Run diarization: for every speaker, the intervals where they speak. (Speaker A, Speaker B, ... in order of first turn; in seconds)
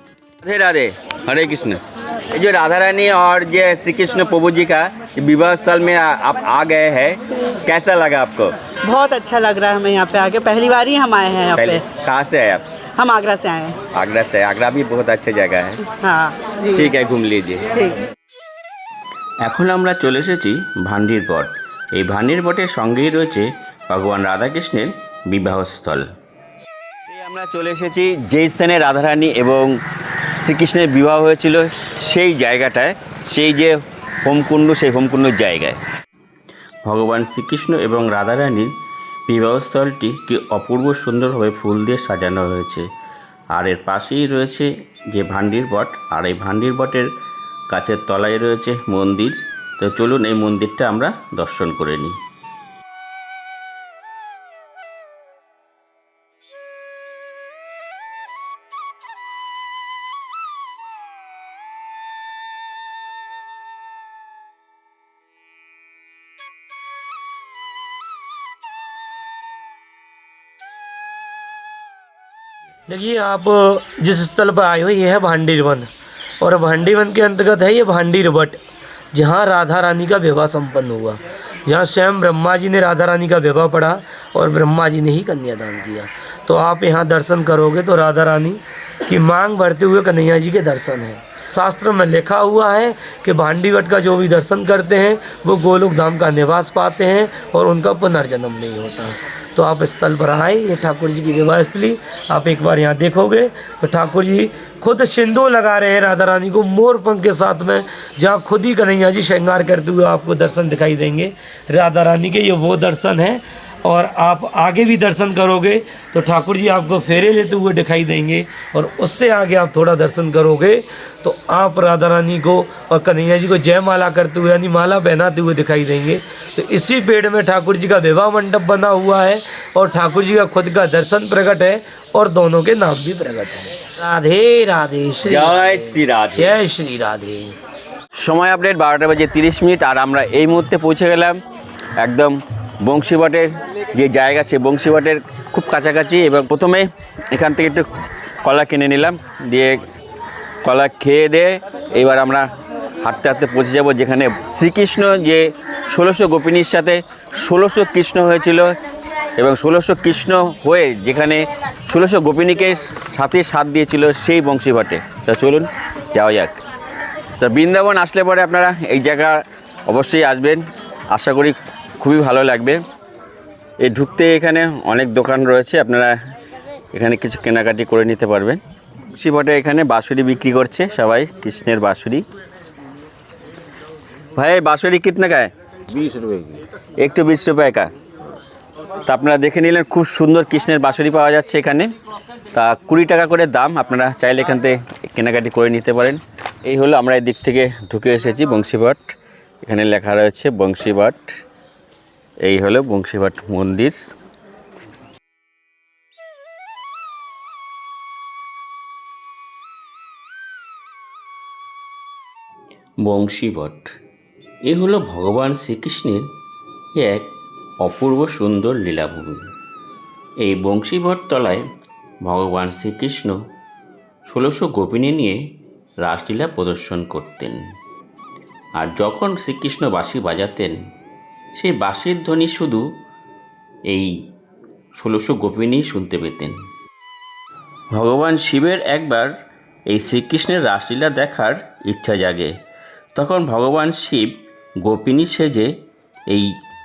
Speaker A: 0.4-8.6, 11.5-12.7, 13.9-15.8, 16.7-17.8, 19.4-26.1, 27.1-29.7, 30.4-35.8, 36.8-38.7, 39.3-42.9, 43.5-47.1, 47.7-52.2, 135.2-136.5, 138.2-141.4, 142.0-147.8, 148.4-149.8, 150.6-152.5, 153.0-158.8, 159.3-166.5, 167.4-172.8, 173.8-176.1, 176.9-178.6, 179.2-182.2, 184.3-186.4, 187.0-187.9, 189.1-191.9, 192.5-201.3, 202.4-203.9, 213.0-213.9, 214.6-216.2, 216.9-217.3, 217.8-219.5, 220.4-221.7, 222.2-223.4, 224.2-225.4, 226.0-227.6, 228.8-230.8, 231.6-232.8, 234.9-236.6, 237.9-239.3, 239.9-242.5, 243.1-245.7
Speaker B: 8.8-11.8, 13.0-13.8, 15.9-16.9, 17.7-18.0
Speaker C: 72.9-75.9, 76.4-78.6, 79.1-137.6